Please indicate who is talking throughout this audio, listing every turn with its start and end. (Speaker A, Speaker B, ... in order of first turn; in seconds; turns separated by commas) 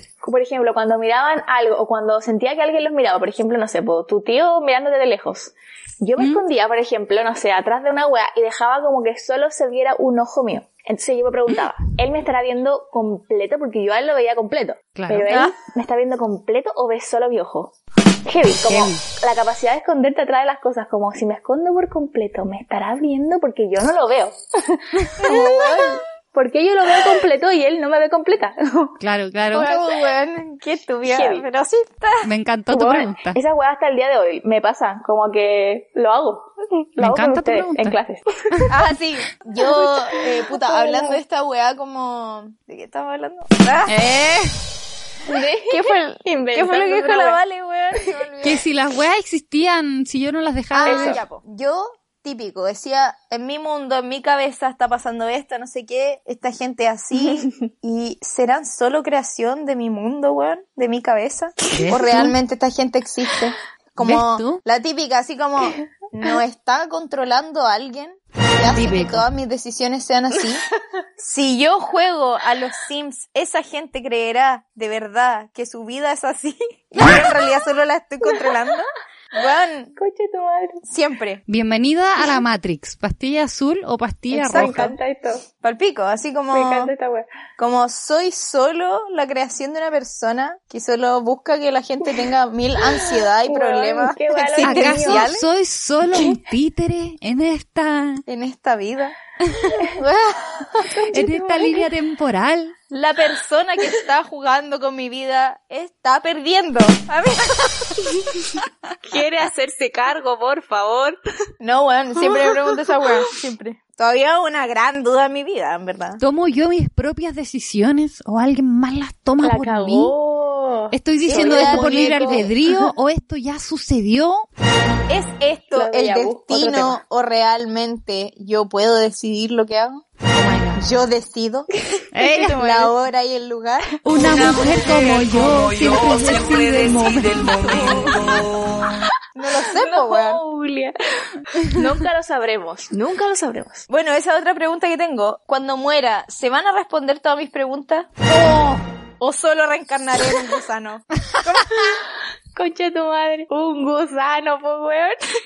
Speaker A: 0.2-29.0, Speaker B: 6.2-6.4, Speaker B: 15.0-15.3, Speaker C: 15.3-15.5, Speaker B: 18.7-19.0, Speaker C: 25.2-26.0, Speaker B: 29.0-29.7, Speaker C: 29.5-32.2, Speaker A: 29.6-29.9, Speaker A: 31.1-31.5, Speaker B: 32.2-33.4, Speaker A: 32.7-38.7, Speaker B: 37.0-38.0, Speaker C: 38.7-44.0, Speaker A: 39.6-41.2, Speaker B: 43.9-44.5, Speaker A: 45.3-47.4, Speaker C: 45.7-48.7, Speaker B: 48.4-51.2, Speaker C: 50.7-70.6, Speaker A: 50.9-51.2, Speaker A: 57.2-57.5, Speaker B: 61.7-62.4, Speaker B: 64.0-64.6, Speaker B: 68.8-69.3, Speaker C: 71.2-80.0, Speaker A: 80.0-80.8, Speaker C: 80.8-81.4, Speaker B: 81.5-84.9, Speaker A: 84.3-85.4, Speaker C: 84.5-84.9, Speaker C: 85.6-86.9, Speaker A: 86.5-87.3, Speaker C: 87.6-95.5, Speaker A: 93.0-95.3, Speaker B: 94.6-98.2, Speaker A: 96.1-96.4, Speaker C: 98.3-99.2, Speaker C: 99.8-100.9, Speaker A: 100.8-101.9, Speaker B: 101.1-102.8, Speaker C: 102.9-108.0, Speaker A: 108.1-108.5, Speaker A: 109.1-111.2, Speaker C: 111.6-116.2, Speaker B: 116.2-120.1, Speaker A: 119.4-122.7, Speaker B: 120.9-124.5, Speaker C: 121.2-122.5, Speaker C: 125.1-130.1, Speaker A: 125.7-127.0, Speaker B: 130.3-130.8, Speaker C: 130.8-131.7, Speaker A: 131.9-132.9, Speaker B: 132.1-132.6, Speaker C: 132.4-134.6, Speaker B: 134.0-138.5, Speaker A: 134.2-135.0, Speaker C: 136.2-136.9, Speaker C: 137.4-138.8, Speaker A: 137.4-139.0, Speaker C: 139.3-140.4, Speaker A: 139.6-143.8, Speaker C: 143.9-148.3, Speaker B: 148.3-148.8, Speaker C: 149.2-151.8, Speaker A: 152.6-155.2